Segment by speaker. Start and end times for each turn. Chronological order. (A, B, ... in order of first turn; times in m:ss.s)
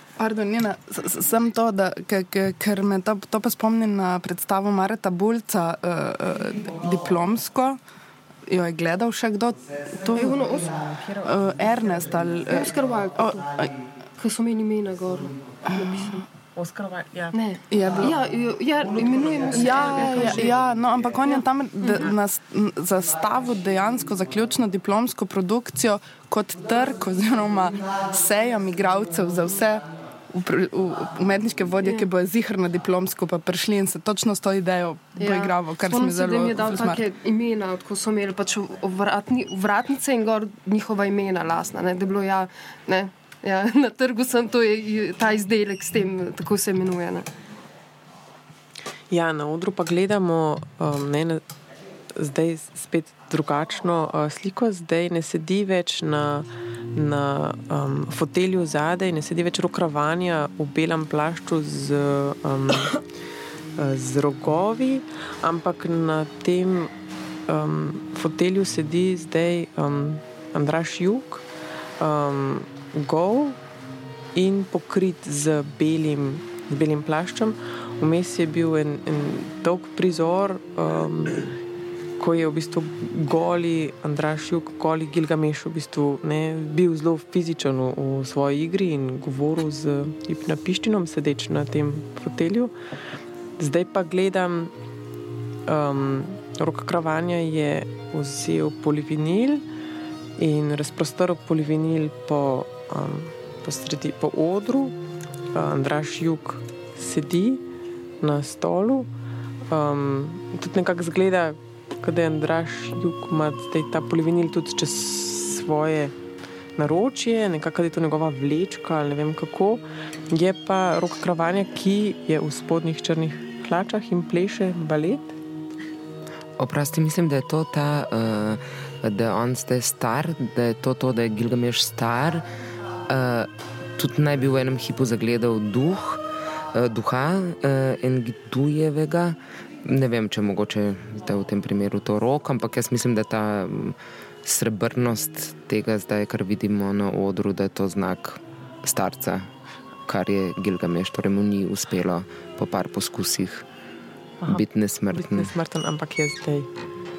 0:00.2-0:07.8 A
0:08.5-0:13.7 A
0:10.1-0:10.9 B
0:12.5-0:13.4 B
0:14.2-0:16.2 B
0:15.8-0:16.1 A
0:16.6-0:17.4 C
0:17.3-0:20.6 B
0:17.7-0:18.2 A
0:19.5-0:37.0 A
0:35.2-0:47.3 B
0:49.1-0:51.4 C
0:52.2-1:03.0 C
1:03.8-1:06.9 C
1:07.5-1:11.4 C
1:12.0-1:13.6 C
1:14.4-1:21.4 C
1:22.2-1:32.7 C
1:33.6-1:34.7 C
1:35.7-1:39.6 C
1:40.4-1:45.0 C
1:45.5-1:47.6 C
1:48.2-1:49.1 C
1:49.7-1:56.1 C
1:56.8-2:05.4 C
2:06.6-2:12.4 D
2:13.1-2:16.2 D
2:16.7-2:29.5 D
2:30.1-2:33.6 D
2:34.4-2:36.7 C
2:34.5-2:35.5 D